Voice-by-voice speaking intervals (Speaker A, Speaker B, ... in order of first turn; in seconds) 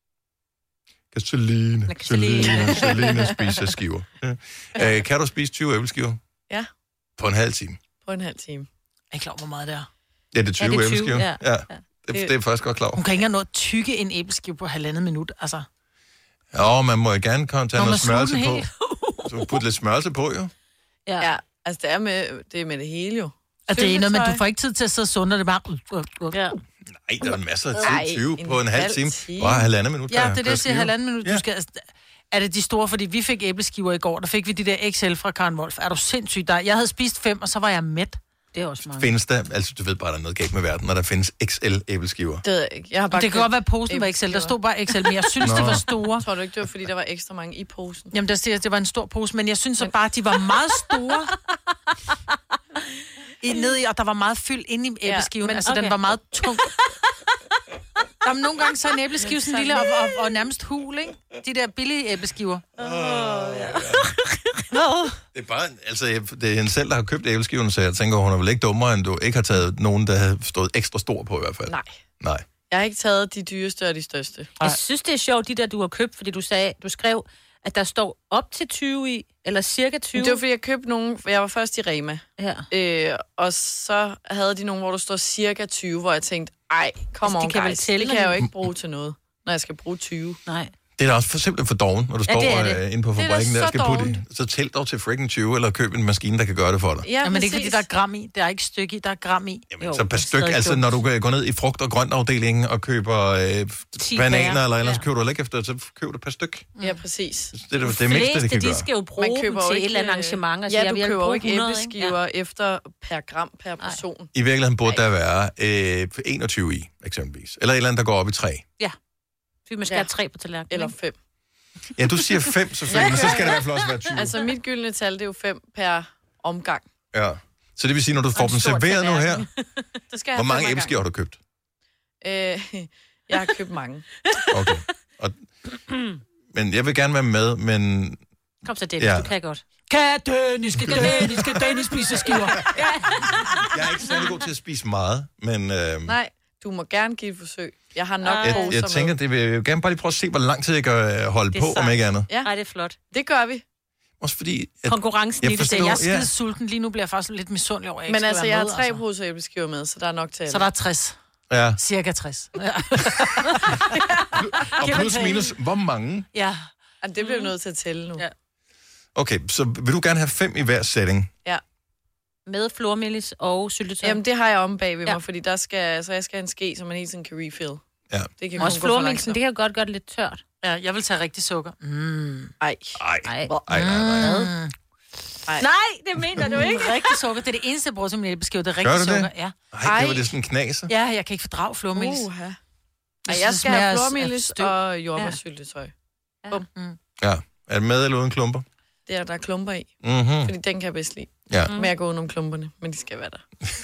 Speaker A: 1.1-6.2, 7.2-7.8, 10.3-13.0, 16.5-18.7, 19.2-20.5, 26.9-31.4, 38.8-42.4, 45.4-45.8, 62.8-64.1, 65.3-72.4, 91.0-97.1, 99.7-106.7, 107.5-108.9, 114.3-118.6, 122.0-124.4, 127.1-129.5, 130.3-131.4, 134.5-135.4, 136.5-138.2, 139.0-139.3, 140.8-141.2, 143.6-146.2, 148.4-152.3, 154.2-156.3, 161.5-161.8, 164.3-166.3, 169.1-171.3, 183.0-184.5, 188.8-190.9, 197.2-198.6, 200.0-200.5
Speaker B: 1.9-3.4, 10.6-12.3, 26.3-26.6, 38.5-39.1, 55.5-56.7, 62.8-63.9, 64.7-65.2, 74.6-80.4, 82.4-82.6, 87.2-88.5, 90.5-90.7, 92.3-92.8, 99.8-100.9, 104.0-105.0, 107.8-112.2, 119.7-120.9, 128.3-129.5, 138.6-139.6, 140.8-143.7, 148.2-148.7, 151.5-152.9, 154.9-156.0, 172.4-174.2, 178.6-180.4, 183.2-183.5, 184.2-184.5, 185.6-187.1
Speaker C: 2.7-3.3, 8.0-8.7, 21.2-24.4, 27.8-29.7, 42.4-44.5, 45.4-48.1, 55.0-55.3, 59.2-59.9, 71.7-71.9, 72.7-74.5, 80.1-90.4, 93.2-94.2, 97.0-97.8, 106.8-107.5, 109.2-114.3, 120.7-121.1, 122.9-123.6, 124.1-126.8, 130.1-130.9, 132.2-134.1, 146.1-149.1, 153.1-153.6, 158.1-160.6, 167.0-168.2, 174.0-177.8, 178.4-179.4, 182.6-183.6, 189.8-190.3, 191.9-192.6, 193.3-195.9, 199.1-199.9, 200.4-203.4
Speaker D: 9.1-9.9, 12.9-15.7, 17.7-18.7, 23.7-26.4, 30.1-38.2, 43.1-46.2, 48.1-51.3, 53.4-56.7, 58.2-62.7, 97.2-99.7, 155.6-159.0, 160.5-161.2, 161.8-164.0, 164.6-165.4, 166.3-166.7, 180.6-182.5, 183.7-184.7, 186.4-189.5, 190.9-192.3, 193.3-194.7